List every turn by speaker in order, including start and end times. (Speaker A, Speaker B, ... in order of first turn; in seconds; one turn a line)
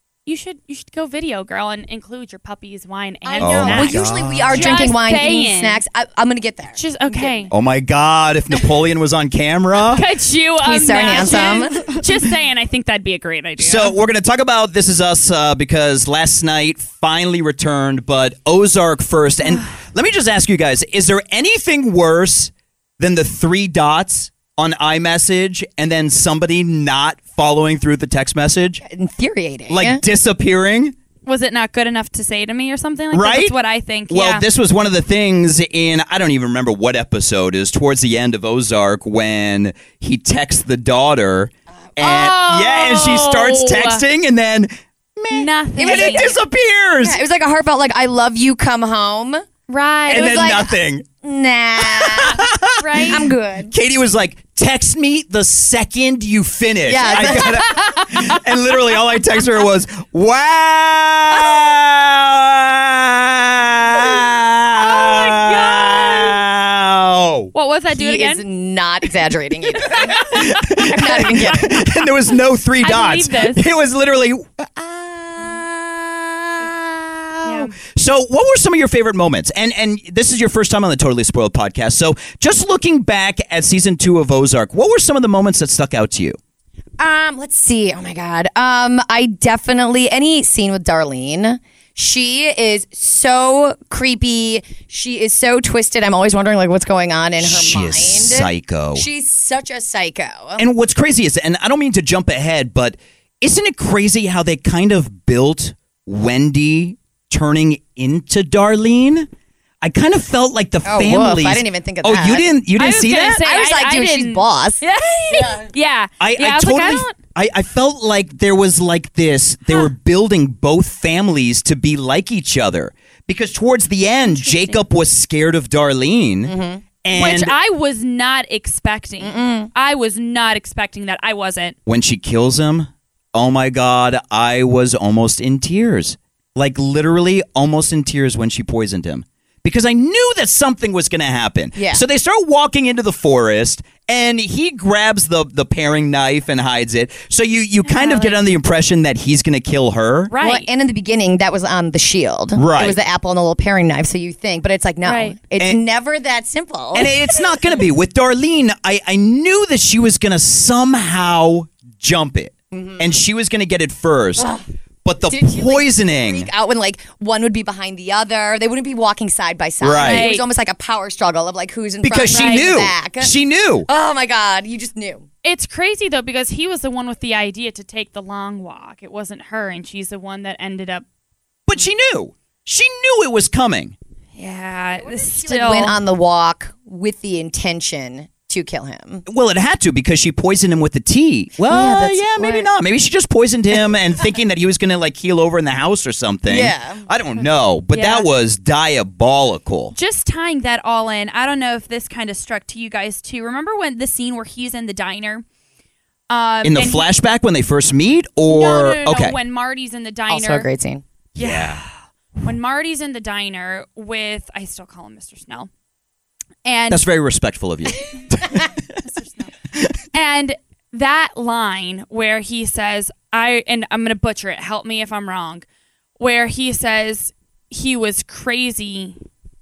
Speaker A: 0.3-5.8
Speaker B: 3.2-7.5
Speaker C: 3.4-4.9
Speaker A: 6.8-7.5
Speaker C: 7.5-10.0
Speaker A: 9.9-13.9
Speaker B: 10.6-12.1
Speaker C: 11.1-11.6
Speaker C: 13.6-28.8
Speaker B: 28.8-30.0
Speaker C: 29.7-30.9
Speaker A: 31.3-34.5
Speaker C: 33.1-33.5
Speaker C: 34.1-47.2
Speaker A: 42.0-44.0
Speaker A: 45.3-46.3
Speaker B: 45.8-46.4
Speaker B: 47.0-49.5
Speaker A: 49.7-50.6
Speaker B: 50.1-52.5
Speaker C: 50.1-51.1
Speaker C: 51.8-53.1
Speaker A: 52.8-53.3
Speaker B: 53.0-53.7
Speaker C: 53.7-67.5
Speaker B: 56.9-58.2
Speaker A: 57.0-57.6
Speaker A: 64.8-66.4
Speaker A: 67.5-68.4
Speaker B: 67.9-71.9
Speaker C: 69.8-86.4
Speaker A: 70.0-71.5
Speaker A: 72.8-73.6
Speaker A: 77.5-77.8
Speaker B: 87.0-100.6
Speaker C: 97.4-99.1
Speaker C: 100.6-109.3
Speaker C: 109.8-113.4
Speaker B: 110.8-112.5
Speaker A: 112.8-117.2
Speaker B: 113.4-115.7
Speaker C: 116.2-127.5
Speaker A: 119.7-119.9
Speaker A: 124.3-124.8
Speaker B: 126.5-126.8
Speaker A: 127.1-131.8
Speaker B: 129.2-129.7
Speaker C: 131.9-150.3
Speaker B: 141.8-142.0
Speaker A: 147.8-148.4
Speaker A: 150.3-150.7
Speaker B: 150.4-157.1
Speaker C: 152.6-153.0
Speaker A: 155.0-155.4
Speaker A: 156.9-157.5
Speaker C: 156.9-164.5
Speaker B: 162.7-163.1
Speaker B: 164.4-164.6
Speaker C: 165.1-166.5
Speaker B: 165.3-173.3
Speaker C: 169.8-170.3
Speaker A: 170.0-170.5
Speaker C: 172.0-173.9
Speaker A: 172.3-172.7
Speaker B: 173.9-175.3
Speaker A: 175.4-181.1
Speaker C: 181.7-183.9
Speaker A: 184.4-186.0
Speaker B: 185.0-189.2
Speaker C: 189.3-199.9
Speaker B: 191.7-192.7
Speaker B: 196.5-197.1
Speaker A: 197.4-198.3
Speaker A: 199.9-205.4
Speaker A: 206.3-207.1
Speaker C: 206.6-209.4
Speaker A: 208.5-210.7
Speaker B: 210.3-211.0
Speaker A: 211.4-215.7
Speaker C: 211.4-211.8
Speaker A: 216.7-217.0
Speaker C: 216.9-219.0
Speaker A: 219.0-219.5
Speaker A: 220.1-225.6
Speaker A: 226.2-229.2